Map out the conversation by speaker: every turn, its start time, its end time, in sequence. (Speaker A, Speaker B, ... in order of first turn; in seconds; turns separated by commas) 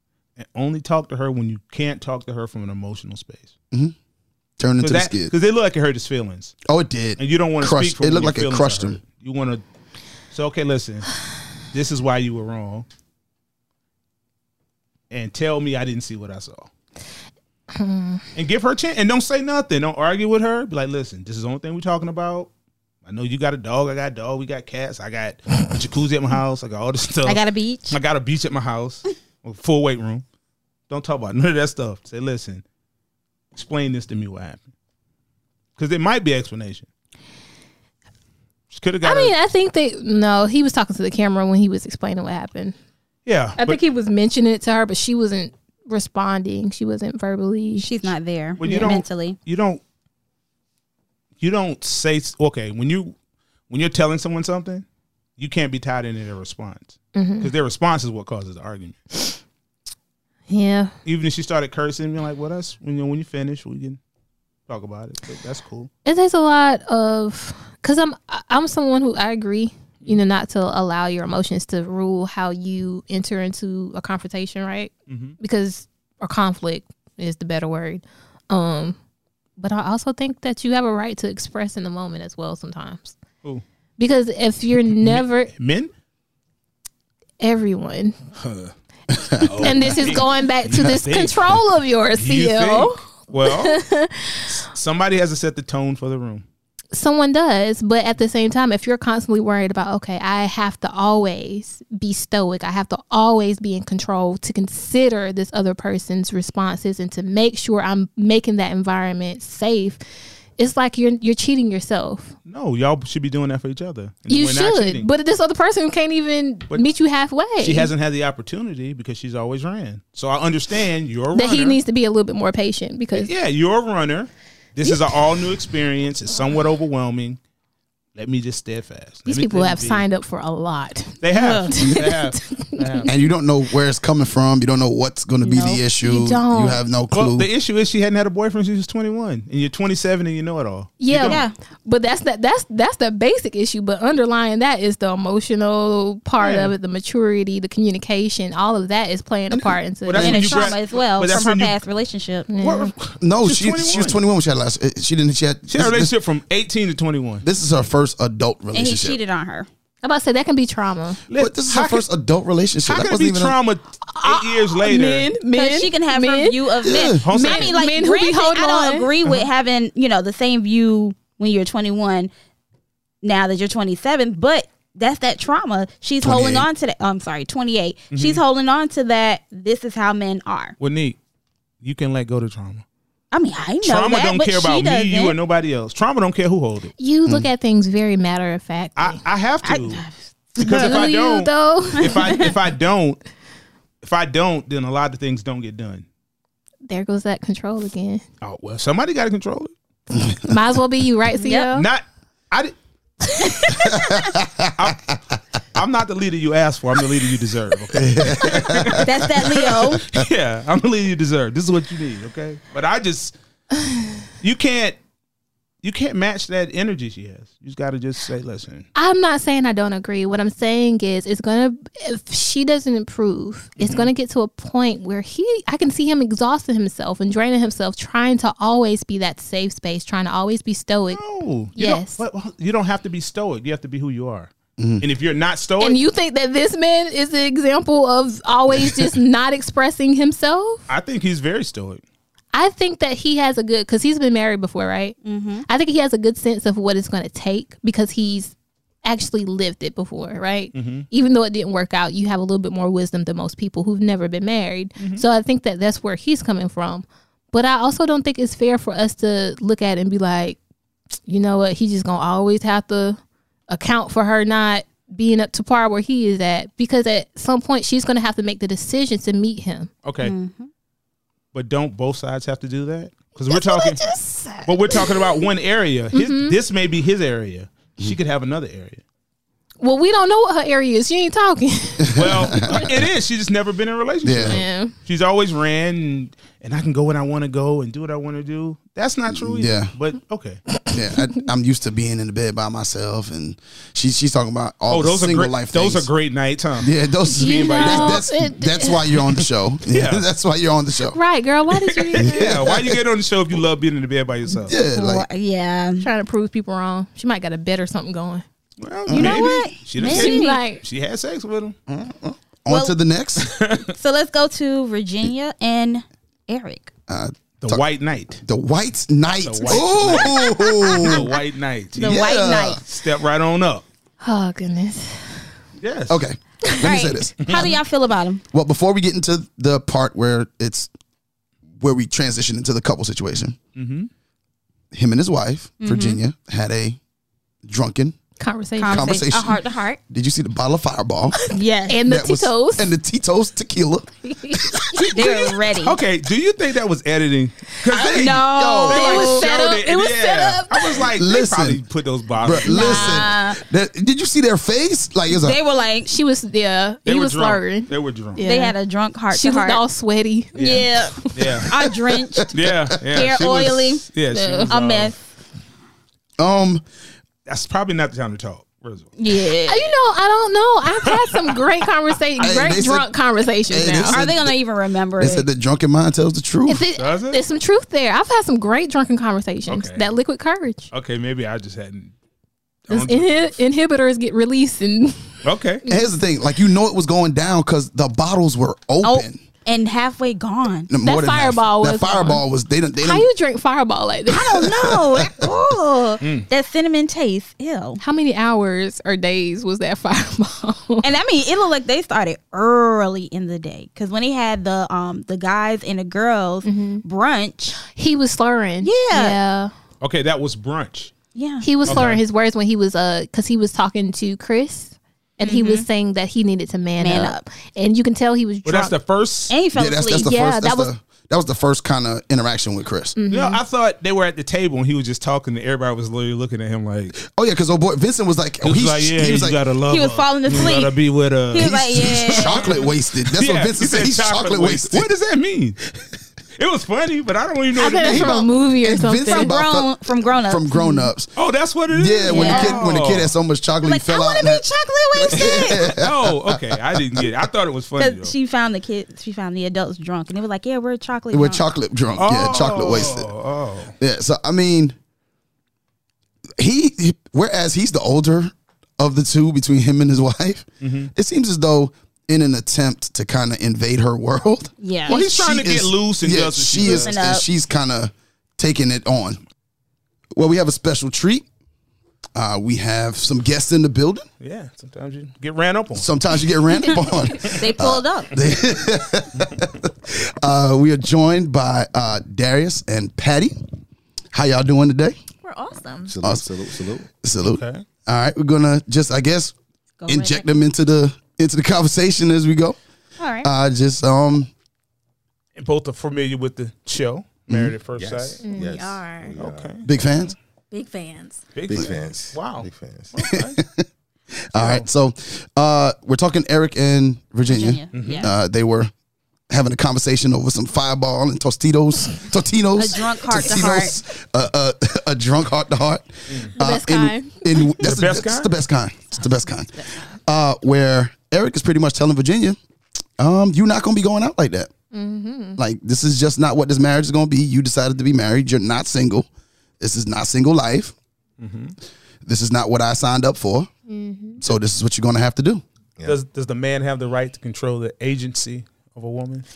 Speaker A: 0.4-3.5, Speaker B: 4.6-5.3, Speaker A: 4.8-6.5, Speaker B: 6.6-9.0, Speaker A: 7.2-9.6, Speaker A: 10.3-11.2, Speaker A: 11.7-12.8, Speaker A: 15.1-16.7, Speaker C: 17.7-18.2, Speaker A: 18.3-22.5, Speaker A: 23.0-30.2, Speaker D: 27.2-28.0, Speaker A: 30.9-32.6, Speaker A: 33.5-34.7, Speaker A: 35.8-36.9, Speaker A: 38.7-39.3, Speaker C: 39.0-42.7, Speaker A: 43.2-43.8, Speaker C: 43.6-47.9, Speaker D: 47.8-49.4, Speaker A: 48.6-49.8, Speaker C: 48.6-49.0, Speaker A: 51.4-53.1, Speaker A: 53.7-54.8, Speaker A: 55.4-59.0, Speaker C: 57.1-57.5, Speaker C: 60.5-60.9, Speaker A: 61.0-64.0, Speaker A: 64.7-65.9, Speaker C: 66.0-79.0, Speaker A: 75.1-75.3, Speaker C: 79.6-83.2, Speaker C: 84.0-85.5, Speaker A: 85.0-85.9, Speaker C: 87.4-88.2, Speaker A: 88.4-88.7, Speaker B: 89.1-89.8, Speaker A: 89.3-93.8, Speaker C: 89.6-94.6, Speaker A: 94.5-96.4, Speaker C: 96.9-110.0, Speaker C: 110.6-112.3, Speaker A: 112.4-115.1, Speaker C: 114.3-117.9, Speaker A: 117.6-121.8, Speaker C: 121.3-123.3, Speaker A: 123.1-127.4, Speaker A: 128.1-130.0, Speaker C: 129.2-133.1, Speaker A: 131.2-133.1, Speaker D: 131.3-131.7, Speaker B: 133.1-137.5, Speaker D: 135.4-135.8, Speaker C: 135.9-136.8, Speaker A: 137.1-141.4, Speaker C: 141.0-150.7, Speaker D: 141.2-141.5, Speaker A: 146.4-146.7, Speaker A: 150.1-151.7, Speaker D: 150.1-152.5, Speaker C: 152.5-152.9, Speaker A: 152.6-154.2, Speaker B: 153.2-156.1, Speaker A: 155.7-157.4, Speaker B: 157.4-159.2, Speaker D: 158.7-159.7, Speaker C: 160.0-161.2, Speaker A: 161.3-162.0, Speaker B: 161.3-163.6, Speaker A: 162.8-165.3, Speaker C: 164.1-166.7, Speaker D: 165.5-172.3, Speaker B: 166.8-167.2, Speaker A: 167.2-167.7, Speaker C: 167.3-169.1, Speaker D: 173.2-180.8, Speaker B: 176.2-176.7, Speaker A: 178.1-178.4, Speaker A: 180.8-181.2, Speaker A: 181.8-182.8, Speaker D: 183.3-185.4, Speaker A: 183.8-186.9, Speaker C: 187.0-189.2, Speaker A: 188.9-190.0, Speaker D: 189.6-191.1, Speaker A: 190.6-193.2, Speaker C: 190.6-192.5, Speaker D: 192.1-192.5, Speaker A: 194.0-196.1, Speaker C: 196.9-198.2, Speaker A: 198.4-199.7, Speaker C: 200.4-201.9, Speaker D: 201.4-201.7, Speaker A: 201.7-202.7, Speaker C: 203.3-203.8, Speaker B: 203.9-204.9, Speaker A: 204.8-205.2, Speaker A: 205.7-213.3, Speaker B: 207.9-209.1, Speaker D: 208.9-210.0, Speaker A: 214.4-215.0, Speaker A: 215.8-218.9, Speaker C: 218.9-231.2, Speaker A: 223.8-224.1, Speaker A: 231.1-236.0, Speaker C: 231.8-232.2, Speaker B: 234.8-235.0, Speaker C: 235.8-240.9, Speaker A: 240.9-242.0, Speaker C: 242.5-260.6, Speaker D: 245.2-245.7, Speaker A: 250.7-251.1, Speaker A: 255.0-255.2, Speaker C: 261.2-269.9, Speaker A: 270.0-270.3, Speaker D: 270.2-270.7, Speaker A: 271.5-274.0, Speaker C: 273.5-275.4, Speaker A: 274.6-279.0, Speaker C: 276.1-276.6, Speaker C: 279.8-282.8, Speaker B: 282.0-282.9, Speaker A: 282.1-290.6, Speaker B: 284.2-284.6, Speaker C: 284.4-284.9, Speaker B: 289.3-289.9, Speaker B: 290.9-296.1, Speaker A: 294.9-298.2, Speaker B: 296.8-301.2, Speaker C: 297.3-299.0, Speaker A: 299.9-300.2, Speaker C: 301.1-302.6, Speaker A: 301.9-304.8, Speaker B: 302.2-303.0, Speaker B: 304.6-305.3, Speaker D: 304.9-306.0, Speaker C: 306.0-308.4, Speaker A: 308.8-311.8, Speaker B: 309.1-309.5, Speaker D: 309.1-310.6, Speaker C: 310.0-310.8, Speaker B: 311.9-313.5, Speaker D: 312.7-312.9, Speaker A: 313.4-313.9, Speaker D: 314.0-316.9, Speaker B: 317.1-317.9, Speaker A: 317.6-318.4, Speaker B: 318.4-321.3, Speaker A: 319.4-322.2, Speaker D: 321.9-322.8, Speaker B: 322.0-322.8, Speaker A: 322.8-323.8, Speaker C: 324.2-325.4, Speaker A: 325.8-326.2, Speaker B: 326.1-327.4, Speaker D: 326.8-328.4, Speaker A: 327.4-327.8, Speaker B: 328.5-330.9, Speaker B: 331.8-333.6, Speaker A: 333.7-334.1, Speaker B: 334.9-337.0, Speaker D: 335.8-336.2, Speaker B: 337.6-338.1, Speaker C: 338.4-339.2, Speaker D: 338.8-340.0, Speaker B: 338.9-341.5, Speaker D: 341.5-342.0, Speaker C: 341.9-342.9, Speaker B: 342.0-345.3, Speaker C: 344.2-345.3, Speaker D: 345.1-346.0, Speaker A: 345.8-352.9, Speaker B: 347.9-349.1, Speaker D: 348.0-349.5, Speaker C: 348.9-351.1, Speaker B: 351.1-351.8, Speaker B: 352.4-355.6, Speaker C: 352.6-353.3, Speaker D: 352.7-353.6, Speaker D: 355.3-356.1, Speaker C: 356.1-358.8, Speaker A: 357.1-358.4, Speaker D: 358.4-359.8, Speaker C: 359.3-361.4, Speaker A: 360.6-361.7, Speaker D: 360.6-362.5, Speaker B: 362.3-362.9, Speaker A: 362.5-365.1, Speaker D: 363.1-364.0, Speaker C: 364.3-364.7, Speaker D: 364.7-365.1, Speaker B: 366.4-366.8, Speaker A: 367.4-369.1, Speaker D: 369.2-369.9, Speaker C: 369.6-374.2, Speaker B: 372.4-373.1, Speaker B: 373.7-374.6, Speaker D: 374.1-375.5, Speaker B: 375.2-376.8, Speaker C: 376.7-380.9, Speaker A: 377.0-377.4, Speaker A: 379.7-380.1, Speaker A: 380.9-382.1, Speaker A: 382.9-383.6, Speaker C: 382.9-386.1, Speaker A: 385.4-385.8, Speaker B: 385.9-389.4, Speaker D: 389.0-390.9, Speaker B: 390.9-393.3, Speaker C: 391.0-392.4, Speaker C: 393.0-394.6, Speaker D: 394.3-398.0, Speaker B: 394.8-395.3, Speaker C: 398.0-401.1, Speaker D: 401.0-407.8, Speaker C: 406.6-407.0, Speaker C: 407.8-409.7, Speaker D: 408.8-409.4, Speaker A: 410.0-411.1, Speaker D: 411.3-412.0, Speaker C: 411.6-418.9, Speaker A: 411.9-412.2, Speaker D: 415.4-415.9, Speaker D: 417.0-417.4, Speaker A: 418.6-419.5, Speaker D: 419.5-420.3, Speaker B: 419.7-423.1, Speaker C: 420.2-420.9, Speaker C: 423.1-423.6, Speaker A: 423.3-427.1, Speaker B: 427.1-429.6, Speaker A: 428.6-435.9, Speaker D: 429.9-431.0, Speaker D: 431.5-432.7, Speaker B: 431.6-435.1, Speaker A: 436.6-438.5, Speaker C: 437.8-439.5, Speaker B: 438.0-441.3, Speaker D: 439.3-440.7, Speaker C: 440.7-441.1, Speaker A: 441.3-443.3, Speaker B: 441.9-444.6, Speaker D: 442.3-442.8, Speaker C: 442.4-442.6, Speaker D: 443.8-446.0, Speaker B: 445.2-447.3, Speaker A: 445.3-448.3, Speaker D: 448.0-451.6, Speaker B: 451.3-453.3, Speaker A: 452.2-453.9, Speaker B: 454.0-454.9, Speaker B: 456.6-469.4, Speaker A: 460.8-461.1, Speaker D: 464.8-465.2, Speaker A: 465.1-467.1, Speaker D: 466.8-467.4, Speaker B: 470.3-471.4, Speaker B: 472.3-474.2, Speaker A: 474.4-476.1, Speaker B: 475.9-483.6, Speaker D: 477.5-478.3, Speaker B: 484.3-485.2, Speaker E: 485.4-486.1, Speaker F: 486.1-487.1, Speaker B: 486.2-486.5, Speaker B: 487.1-489.5, Speaker A: 487.4-487.8, Speaker D: 490.0-490.5, Speaker B: 490.1-492.8, Speaker D: 493.2-493.5, Speaker B: 493.4-494.5, Speaker A: 495.6-498.4, Speaker B: 497.5-497.7, Speaker F: 497.9-499.8, Speaker C: 498.4-498.7, Speaker E: 498.5-499.3, Speaker A: 499.4-500.3, Speaker B: 499.8-500.3, Speaker E: 500.7-501.5, Speaker A: 501.5-503.6, Speaker F: 501.7-503.1, Speaker B: 503.2-508.9, Speaker A: 504.5-504.9, Speaker D: 507.5-508.3, Speaker A: 507.9-508.3, Speaker B: 509.5-522.6, Speaker D: 512.8-514.0, Speaker C: 516.6-517.8, Speaker A: 517.8-518.5, Speaker B: 523.2-524.7, Speaker C: 524.9-525.6, Speaker B: 525.6-529.3, Speaker B: 529.8-530.9, Speaker A: 531.4-531.7, Speaker B: 532.2-533.7, Speaker C: 533.9-534.4, Speaker B: 534.4-535.6, Speaker A: 536.0-539.5